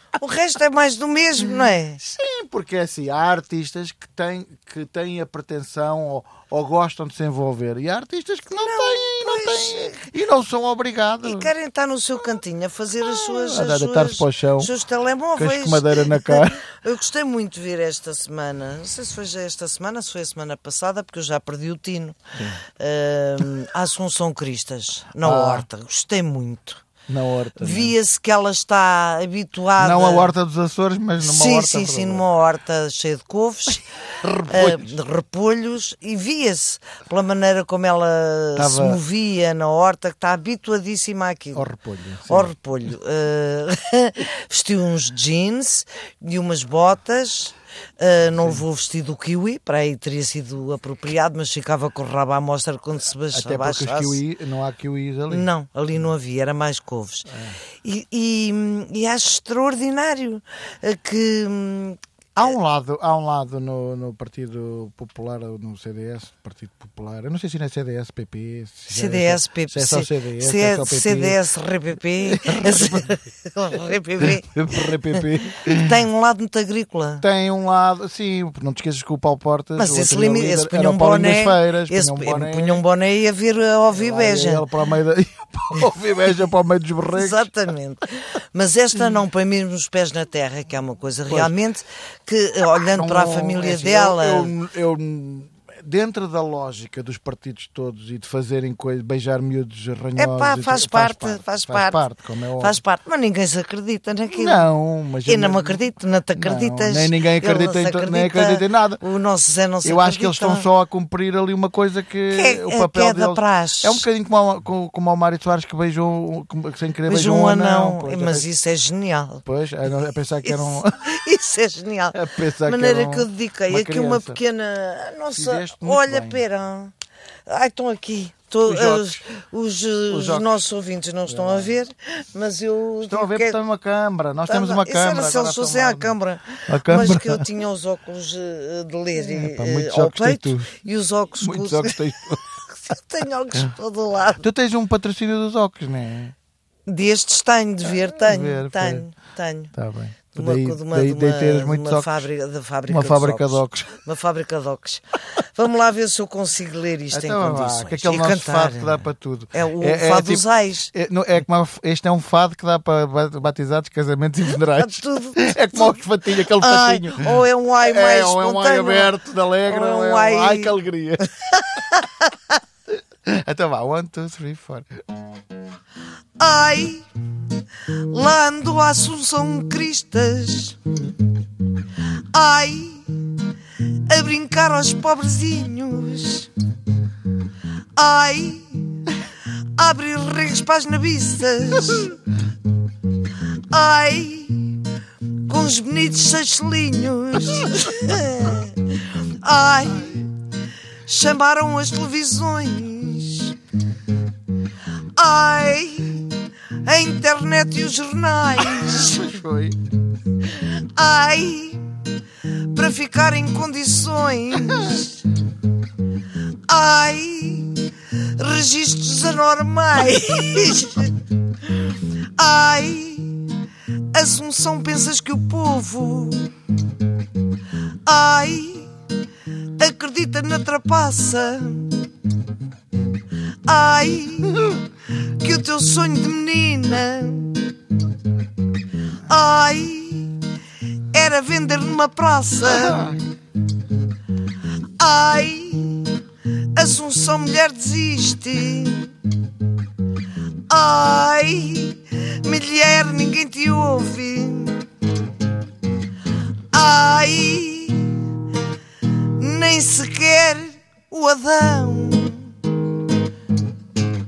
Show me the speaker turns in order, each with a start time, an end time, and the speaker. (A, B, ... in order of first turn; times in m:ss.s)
0:00.2-0:02.0 A
0:02.0-0:11.5 B
0:08.6-0:10.1 A
0:11.2-0:22.2 A
0:13.1-0:14.7 B
0:15.4-0:16.6 B
0:22.4-0:22.6 B
0:22.8-0:26.8 A
0:25.2-0:25.7 B
0:27.1-0:28.0 B
0:27.6-0:30.3 A
0:29.8-0:32.3 B
0:31.2-0:33.8 A
0:34.2-0:35.0 B
0:34.5-0:41.7 A
0:38.6-0:39.0 B
0:41.5-0:42.5 B
0:42.3-0:54.2 A
0:48.4-0:48.6 B
0:53.3-0:56.1 B
0:55.3-0:57.3 A
0:57.3-0:57.6 B
0:57.8-1:02.0 A
1:02.4-1:11.4 B
1:08.9-1:17.2 A
1:12.2-1:13.2 B
1:14.2-1:16.0 B
1:17.2-1:22.8 B
1:19.8-1:24.7 A
1:23.9-1:27.5 B
1:27.2-1:34.5 A
1:31.3-1:31.5 B
1:32.9-1:42.8 B
1:40.2-1:42.0 A
1:42.6-1:44.6 A
1:44.3-1:45.8 B
1:45.2-1:50.7 A
1:46.4-1:49.0 B
1:49.8-1:58.5 B
1:52.3-1:54.1 A
1:57.0-1:59.4 A
1:59.4-2:01.1 B
2:00.4-2:06.9 A
2:02.1-2:04.4 B
2:05.3-2:06.4 B
2:07.5-2:13.6 A
2:08.6-2:09.2 B
2:10.1-2:10.6 B
2:11.3-2:11.8 B
2:13.1-2:17.5 B
2:14.5-2:24.4 A
2:19.2-2:20.8 B
2:21.4-2:22.6 B
2:24.4-2:26.3 B
2:26.9-2:29.7 A
2:27.9-2:29.1 B
2:29.7-2:32.3 B
2:30.4-2:40.9 A
2:32.9-2:34.0 B
2:37.1-2:51.3 B
2:44.5-2:50.8 A
2:51.5-2:52.4 A
2:53.2-2:54.9 B
2:56.4-2:57.1 A
2:57.9-3:00.8 A
3:02.2-3:06.5 A
3:08.0-3:09.2 A
3:09.8-3:12.2 A
3:13.5-3:20.3 A
3:21.0-3:23.6 A
3:25.2-3:29.3 A
3:28.6-3:29.8 B
3:30.4-3:31.9 A
3:32.4-3:35.2 A
3:36.7-3:46.5 A
3:48.0-3:48.9 A
3:49.6-3:52.1 A
3:53.7-3:57.8 A
3:59.2-4:03.2 A
4:02.6-4:03.3 B
4:05.0-4:09.1 A
4:10.7-4:14.9 A
4:16.7-4:18.4 A
4:19.2-4:22.6 A